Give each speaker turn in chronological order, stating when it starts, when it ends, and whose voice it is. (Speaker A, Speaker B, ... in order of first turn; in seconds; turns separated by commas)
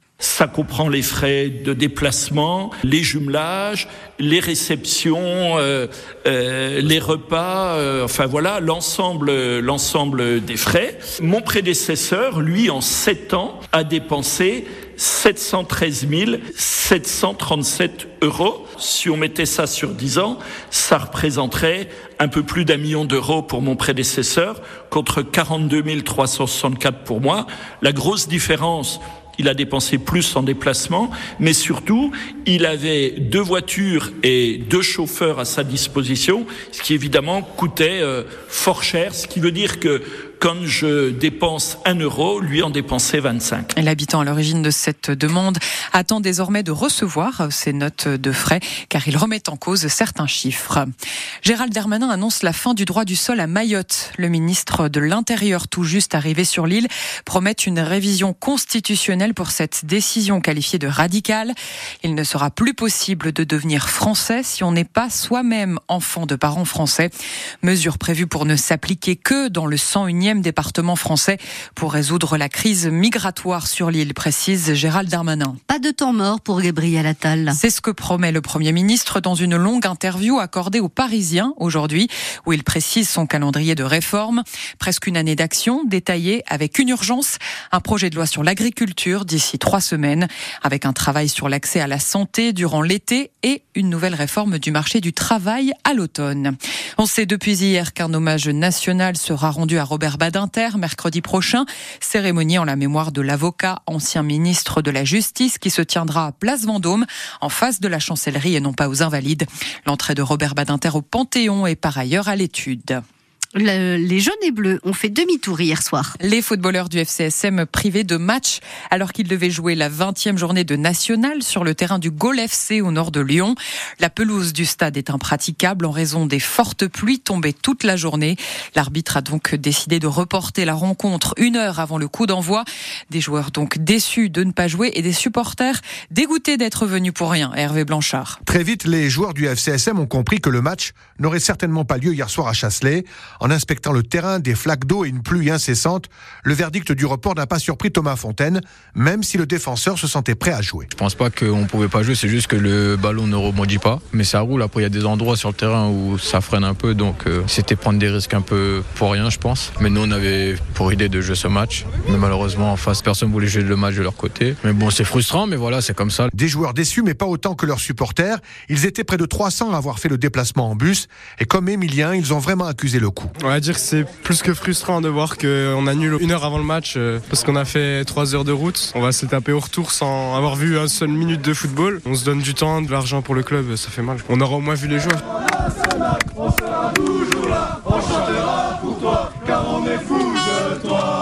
Speaker A: 0.2-43.7, Speaker B: 43.8-50.9, Speaker B: 51.4-67.1, Speaker B: 67.6-75.6, Speaker C: 75.7-77.6, Speaker B: 77.5-113.0, Speaker C: 113.5-116.1, Speaker B: 116.2-138.4, Speaker D: 138.4-150.9, Speaker E: 150.9-166.3, Speaker D: 166.3-173.3, Speaker F: 173.4-185.2, Speaker F: 189.9-190.2